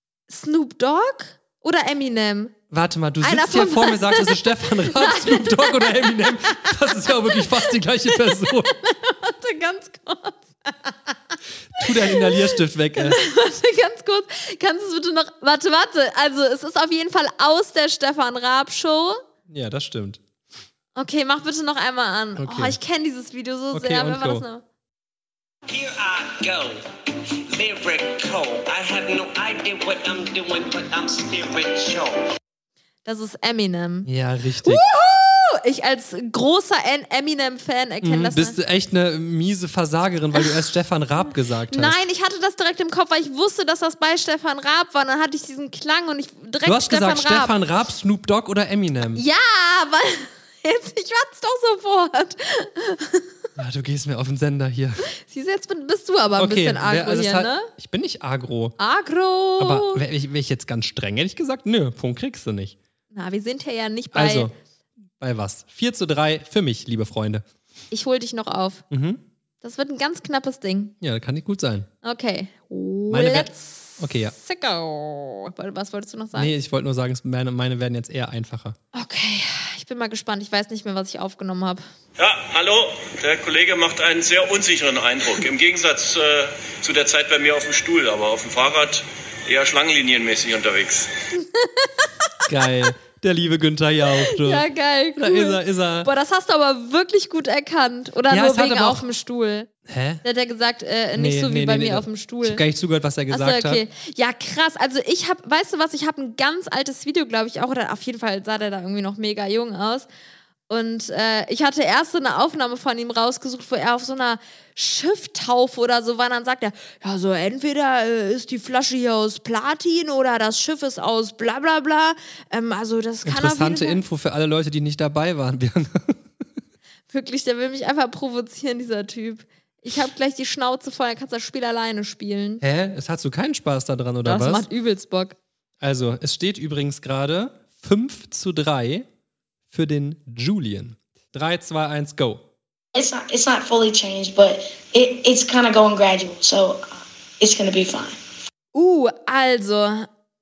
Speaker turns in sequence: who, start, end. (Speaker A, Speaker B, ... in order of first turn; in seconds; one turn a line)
Speaker A: 0.3-2.5
Speaker B: 2.7-8.7
Speaker A: 3.2-19.2
Speaker B: 11.7-13.2
Speaker B: 19.5-20.2
Speaker A: 20.9-24.6
Speaker B: 22.4-22.8
Speaker B: 23.7-24.4
Speaker C: 25.7-26.8
Speaker C: 27.5-32.2
Speaker A: 33.0-34.1
Speaker B: 34.0-34.8
Speaker A: 34.6-38.5
Speaker B: 38.0-42.0
Speaker A: 41.7-47.5
Speaker B: 46.6-49.2
Speaker A: 49.1-53.3
Speaker B: 53.5-55.0
Speaker A: 55.2-57.7
Speaker B: 56.4-58.7
Speaker A: 58.8-60.0
Speaker B: 59.6-62.8
Speaker A: 63.1-64.5
Speaker B: 64.1-64.5
Speaker B: 65.2-67.4
Speaker A: 67.9-68.8
Speaker B: 68.9-69.2
Speaker A: 69.6-70.9
Speaker B: 71.0-71.9
Speaker A: 72.0-76.5
Speaker B: 73.1-74.3
Speaker B: 76.3-78.8
Speaker A: 78.9-81.8
Speaker D: 82.2-91.1
Speaker A: 91.5-92.1
Speaker B: 92.5-94.6
Speaker A: 94.2-99.7
Speaker B: 95.2-96.1
Speaker B: 98.3-99.0
Speaker B: 99.9-100.2
Speaker A: 100.2-102.6
Speaker B: 101.2-103.8
Speaker A: 103.3-110.1
Speaker A: 110.7-124.0
Speaker B: 123.2-126.2
Speaker A: 127.1-132.6
Speaker B: 132.6-134.7
Speaker A: 134.2-135.3
Speaker B: 135.8-139.1
Speaker B: 139.7-142.4
Speaker E: 143.0-146.7
Speaker E: 147.4-148.1
Speaker A: 148.7-150.1